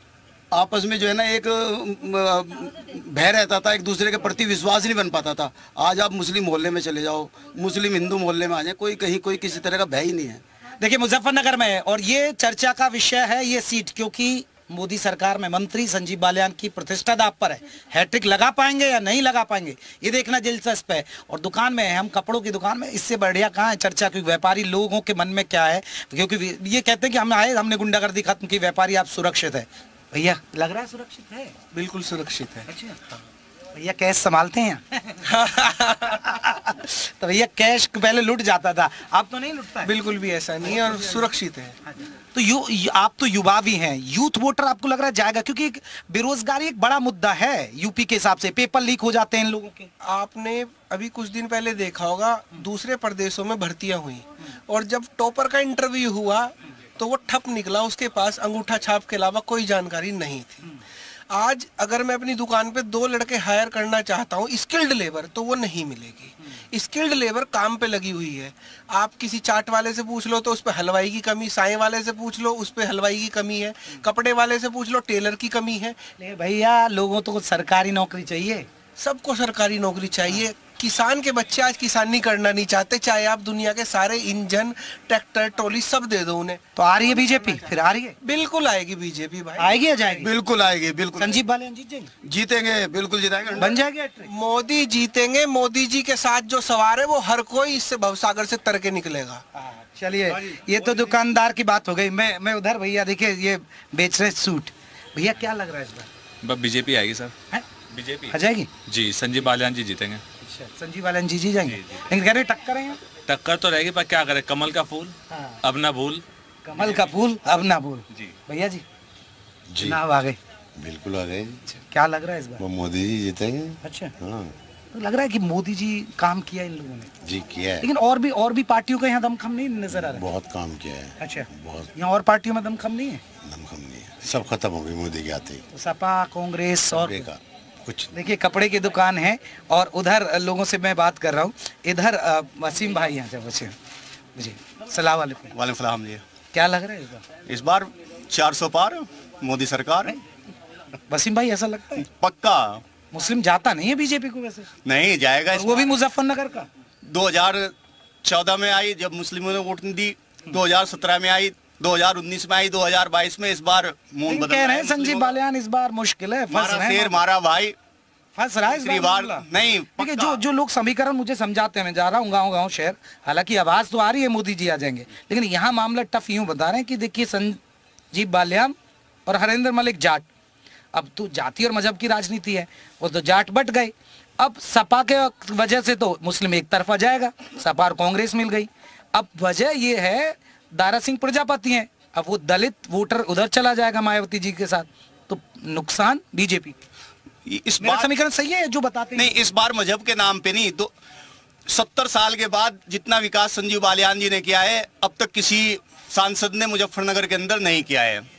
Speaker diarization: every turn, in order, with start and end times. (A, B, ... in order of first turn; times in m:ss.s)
0:00.5-0:10.4 A
0:10.8-0:31.6 B
0:31.8-0:32.6 C
0:32.7-0:33.0 B
0:33.7-0:35.2 B
0:36.1-0:39.9 B
0:39.9-0:41.7 C
0:40.6-0:41.2 B
0:41.8-0:49.9 B
0:50.1-1:00.6 C
1:01.3-1:16.0 C
1:16.2-1:18.7 B
1:19.0-1:26.6 C
1:26.8-1:28.2 B
1:28.3-1:29.5 C
1:29.6-1:30.3 B
1:30.2-1:31.4 A
1:31.2-1:32.1 B
1:32.2-1:33.8 A
1:33.6-1:34.3 B
1:34.4-1:39.4 C
1:39.6-1:46.1 B
1:46.4-1:47.3 D
1:47.9-1:48.4 D
1:48.3-1:48.7 B
1:48.9-1:50.2 D
1:50.4-1:53.0 B
1:53.3-1:56.2 D
1:55.3-1:55.6 B
1:56.6-1:58.8 B
1:56.8-1:57.1 D
1:59.7-2:00.0 E
1:59.8-2:00.4 B
2:00.8-2:01.6 E
2:01.7-2:02.6 B
2:02.6-2:04.5 E
2:03.8-2:04.1 B
2:04.9-2:07.1 B
2:07.2-2:07.9 E
2:07.8-2:10.3 B
2:09.9-2:11.9 E
2:11.2-2:13.2 B
2:13.4-2:15.6 E
2:15.7-2:17.3 B
2:16.9-2:18.1 E
2:18.1-2:23.7 B
2:24.4-2:25.5 B
2:25.5-2:26.2 F
2:26.5-2:27.2 B
2:27.5-2:30.1 F
2:31.1-2:32.1 B
2:32.0-2:32.8 F
2:33.1-2:34.7 B
2:34.8-2:35.8 F
2:35.5-2:36.7 B
2:37.1-2:37.7 F
2:38.2-2:45.3 F
2:44.3-2:47.2 B
2:46.5-2:47.8 F
2:48.4-2:57.6 B
2:48.6-2:50.4 F
2:58.1-2:58.8 B
2:59.3-3:00.3 B
3:00.9-3:16.8 B
3:17.5-3:18.1 F
3:17.8-3:19.4 B
3:19.2-3:20.9 F
3:21.7-3:28.2 F